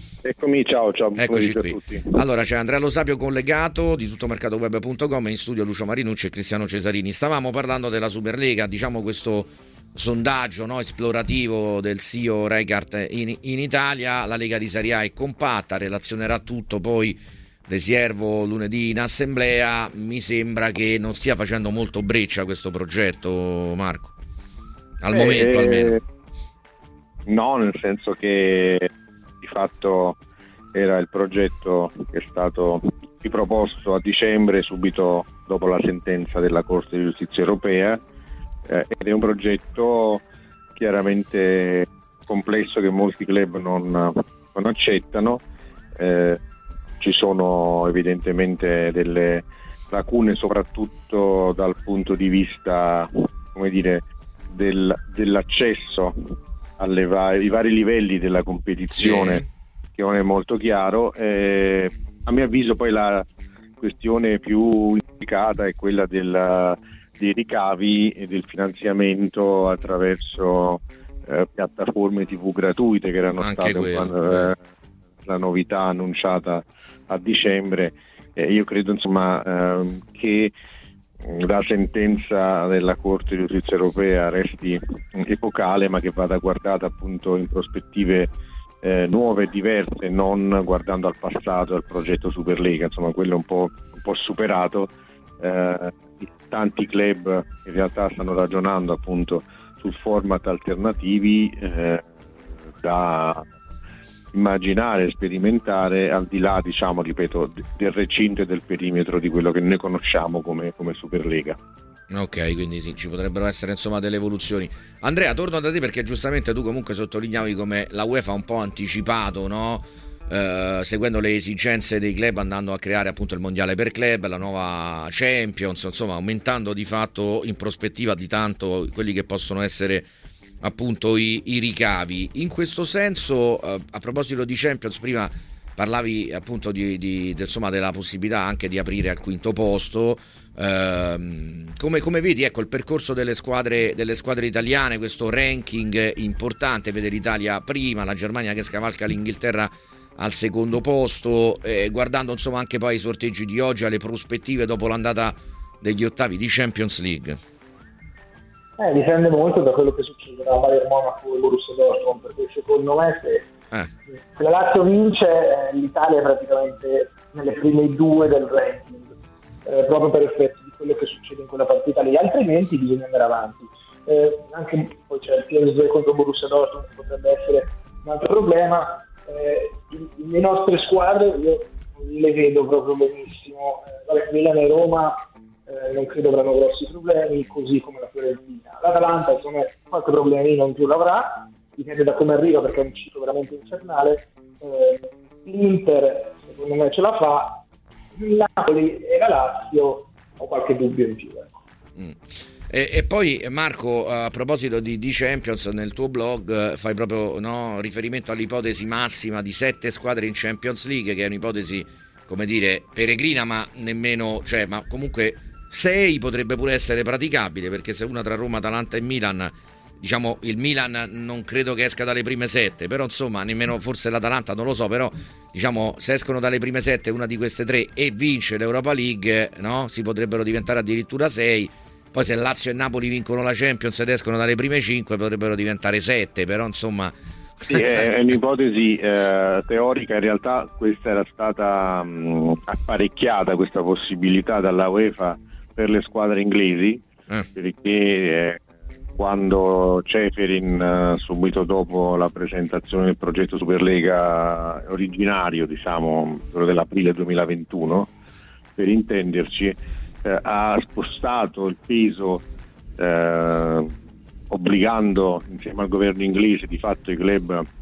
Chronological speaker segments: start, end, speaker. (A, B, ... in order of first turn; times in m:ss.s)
0:00.2-0:02.1 A
0:01.2-0:24.1 B
0:25.0-0:26.0 B
0:25.1-0:26.0 A
0:27.3-0:28.9 A
0:29.4-0:30.2 A
0:30.7-0:38.0 A
0:38.6-0:40.2 A
0:40.8-0:45.4 A
0:46.0-0:46.4 A
0:47.0-1:03.2 A
0:58.9-0:59.4 B
1:03.8-1:14.6 A
1:13.4-1:14.5 B
1:15.2-1:20.5 A
1:21.2-1:28.3 A
1:28.8-1:42.1 A
1:42.8-1:43.5 A
1:44.3-1:51.6 A
1:52.1-2:10.1 B
2:10.6-2:37.4 B
2:38.8-2:43.5 C
2:44.3-3:17.6 C
3:18.2-3:21.6 C
3:22.0-3:57.8 B
3:57.7-4:08.6 A
4:09.2-4:18.1 A
4:18.8-4:22.4 A
4:23.0-4:23.9 A
4:24.5-4:27.6 A